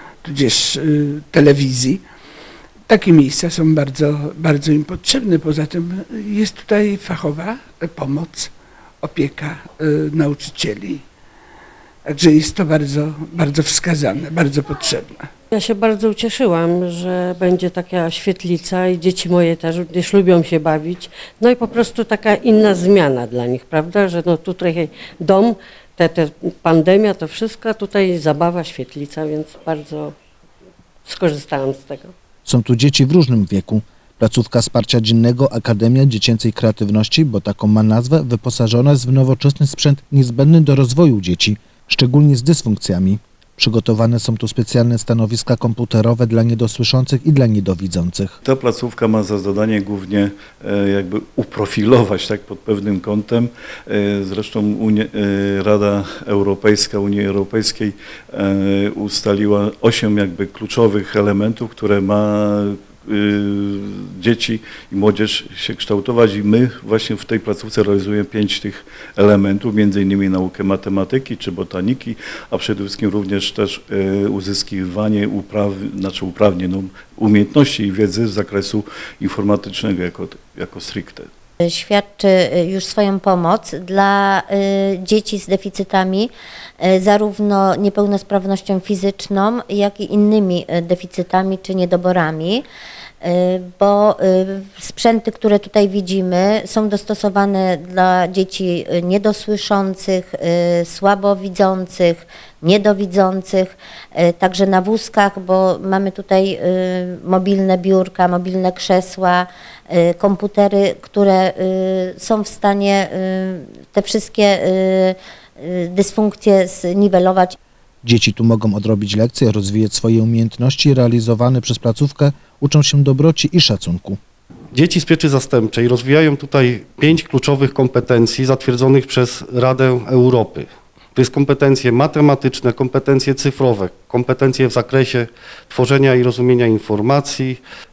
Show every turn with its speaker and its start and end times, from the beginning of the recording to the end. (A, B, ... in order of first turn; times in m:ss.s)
0:00.2-0:02.0 A
0:02.9-0:11.0 A
0:12.0-0:15.3 A
0:15.5-0:30.1 B
0:31.0-0:32.1 B
0:32.4-0:48.3 C
0:48.4-1:21.3 D
1:21.6-1:32.6 E
1:33.2-1:57.6 E
1:58.0-2:04.2 C
2:04.7-2:17.6 F